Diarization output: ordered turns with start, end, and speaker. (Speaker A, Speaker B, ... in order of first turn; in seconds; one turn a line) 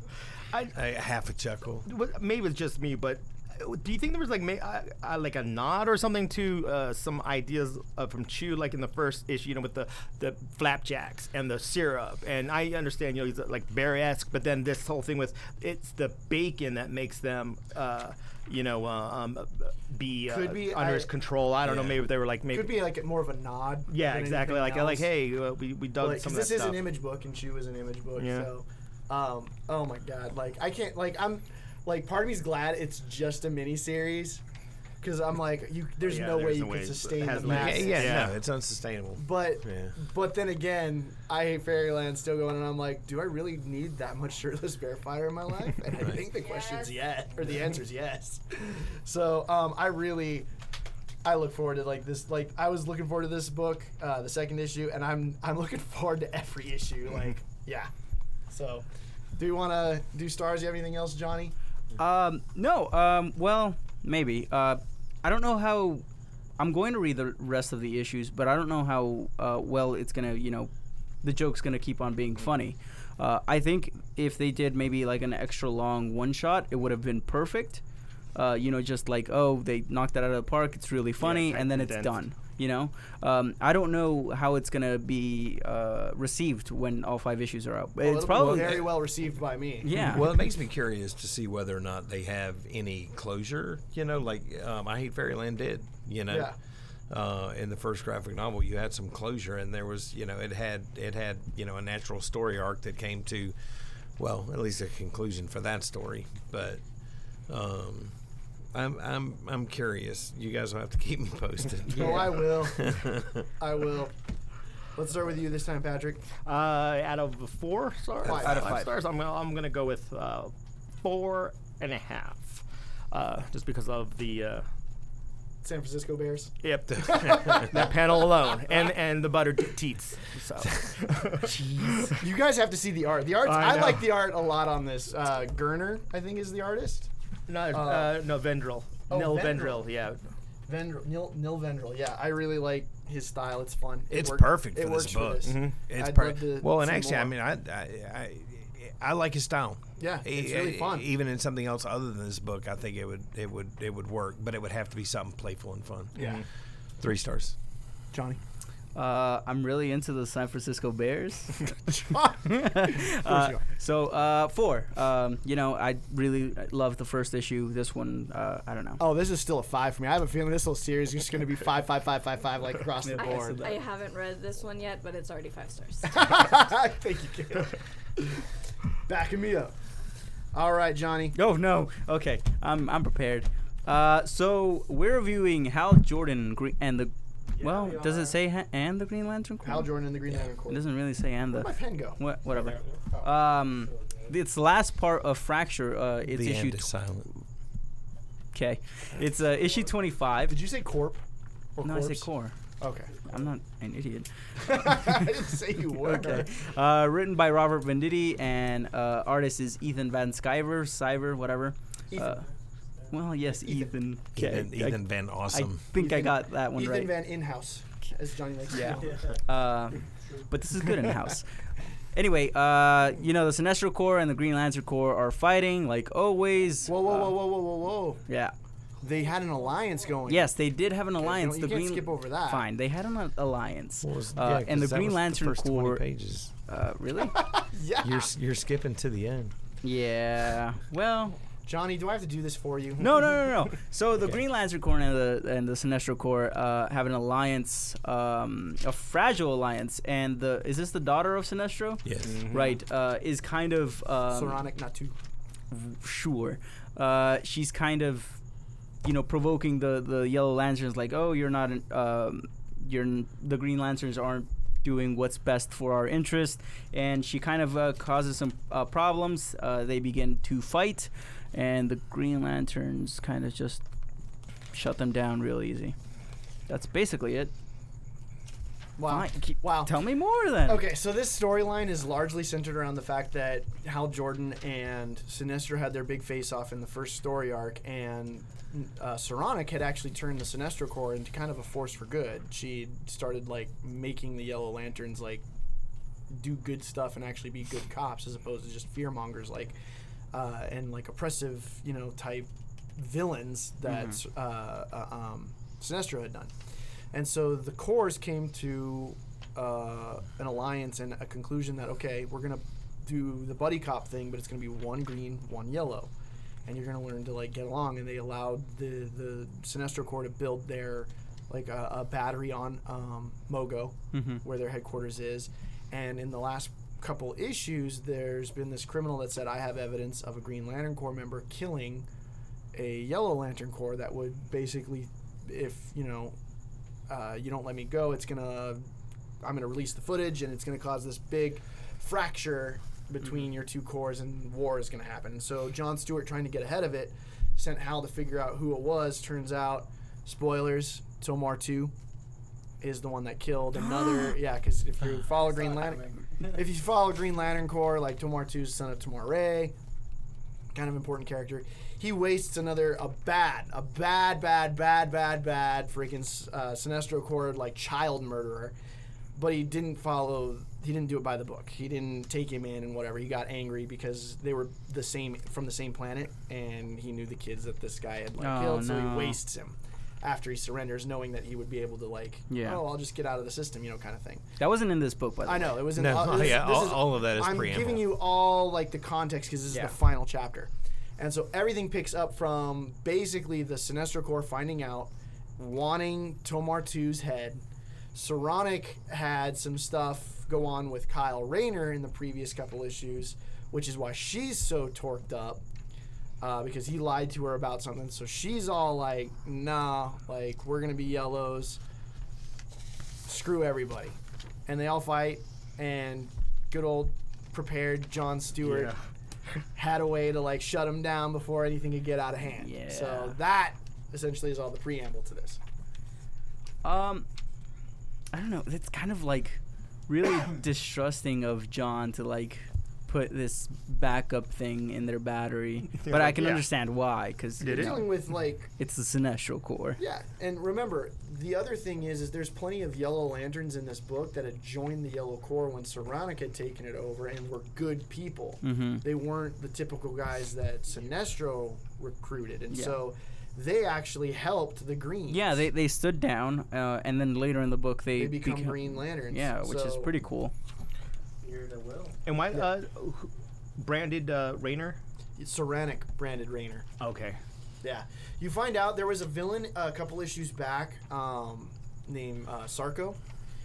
Speaker A: 0.7-1.9
Speaker B: 1.9-22.9
Speaker C: 20.3-21.1
Speaker A: 21.6-22.0
Speaker C: 22.5-25.1
Speaker B: 23.9-26.9
Speaker C: 26.0-34.4
Speaker B: 28.1-28.5
Speaker C: 35.0-38.3
Speaker B: 36.0-38.3
Speaker A: 37.4-40.0
Speaker C: 39.2-50.5
Speaker D: 46.4-47.0
Speaker C: 51.2-57.9
Speaker C: 58.5-61.5
Speaker E: 62.0-66.0
Speaker E: 66.6-70.7
Speaker E: 71.2-77.8
Speaker E: 78.3-88.9
Speaker B: 81.2-82.2
Speaker C: 88.0-90.0
Speaker A: 88.3-88.9
Speaker E: 89.8-90.3
Speaker A: 90.0-96.5
Speaker C: 96.3-96.5
Speaker A: 97.1-103.5
Speaker A: 104.2-106.8
Speaker A: 107.5-108.1
Speaker A: 108.7-113.4
Speaker C: 111.9-114.1
Speaker C: 114.9-116.2
Speaker B: 116.4-124.7
Speaker C: 118.2-118.8
Speaker E: 118.2-118.9
Speaker C: 125.6-128.2
Speaker B: 126.6-132.1
Speaker A: 127.0-127.6
Speaker E: 131.5-132.1
Speaker C: 132.2-137.1
Speaker B: 133.4-134.2
Speaker B: 137.5-140.2
Speaker C: 137.7-138.2
Speaker C: 139.1-139.8
Speaker C: 140.7-147.3
Speaker A: 144.1-156.2
Speaker B: 145.4-145.8
Speaker C: 150.0-151.1
Speaker B: 156.2-156.4
Speaker C: 156.2-156.4
Speaker A: 157.0-157.6
Speaker C: 158.1-158.4
Speaker E: 158.9-161.7
Speaker C: 161.9-163.6
Speaker E: 162.4-169.0
Speaker C: 169.0-173.6
Speaker E: 173.0-173.8
Speaker D: 173.2-176.2
Speaker C: 176.1-178.3
Speaker C: 179.1-179.7
Speaker C: 180.5-181.3
Speaker E: 181.3-189.9
Speaker F: 187.6-188.3
Speaker C: 189.6-190.8
Speaker E: 190.6-196.9
Speaker C: 191.5-192.2
Speaker F: 192.6-194.3
Speaker A: 196.3-197.3
Speaker E: 198.5-200.6
Speaker C: 200.5-201.2
Speaker C: 201.8-202.3
Speaker E: 201.8-202.5
Speaker C: 202.8-203.1
Speaker E: 203.2-205.3
Speaker C: 204.6-206.5
Speaker E: 205.9-212.4
Speaker C: 212.1-212.4
Speaker F: 212.4-213.1
Speaker E: 213.1-217.1
Speaker A: 214.3-215.8
Speaker C: 215.9-219.4
Speaker E: 218.7-221.5
Speaker F: 219.1-219.4
Speaker E: 222.1-227.3
Speaker C: 226.8-228.2
Speaker E: 228.3-228.5
Speaker C: 229.0-230.5
Speaker E: 230.2-236.0
Speaker C: 231.2-232.7
Speaker A: 234.0-236.5
Speaker E: 236.7-237.4
Speaker C: 237.3-238.3
Speaker A: 238.0-239.5
Speaker E: 239.8-241.4
Speaker C: 241.6-243.3
Speaker E: 243.0-254.6
Speaker A: 252.0-252.4
Speaker B: 252.2-252.7
Speaker C: 254.3-255.1
Speaker E: 255.7-258.4
Speaker E: 259.0-273.8
Speaker E: 274.7-275.9
Speaker E: 276.7-277.5
Speaker C: 279.0-279.9
Speaker E: 279.1-280.8
Speaker C: 280.6-295.4
Speaker C: 296.3-299.8
Speaker C: 300.3-306.5
Speaker E: 303.9-304.2
Speaker C: 307.1-316.1
Speaker C: 316.6-332.1
Speaker E: 324.1-324.4
Speaker C: 332.7-336.4
Speaker C: 337.1-338.9
Speaker C: 339.4-351.9
Speaker C: 352.8-359.8
Speaker E: 353.8-354.4
Speaker F: 355.2-356.7
Speaker C: 360.7-368.7
Speaker C: 369.3-384.4
Speaker E: 378.4-379.4
Speaker E: 382.5-382.8
Speaker E: 384.6-385.9
Speaker C: 385.4-397.6
Speaker A: 385.9-388.2
Speaker C: 398.1-405.6
Speaker C: 406.4-411.8
Speaker C: 413.2-418.9
Speaker B: 418.6-419.0
Speaker C: 419.7-425.6
Speaker E: 422.6-423.4
Speaker E: 426.8-427.3
Speaker E: 428.3-438.1
Speaker B: 436.0-436.6
Speaker B: 437.6-438.1
Speaker C: 437.7-438.7
Speaker E: 438.8-440.0
Speaker C: 440.0-455.6
Speaker E: 448.6-449.0
Speaker E: 452.7-453.0
Speaker E: 455.3-460.5
Speaker C: 458.1-460.1
Speaker F: 461.4-462.2
Speaker B: 462.2-465.0
Speaker C: 465.4-466.9
Speaker B: 467.0-467.4
Speaker C: 467.8-473.2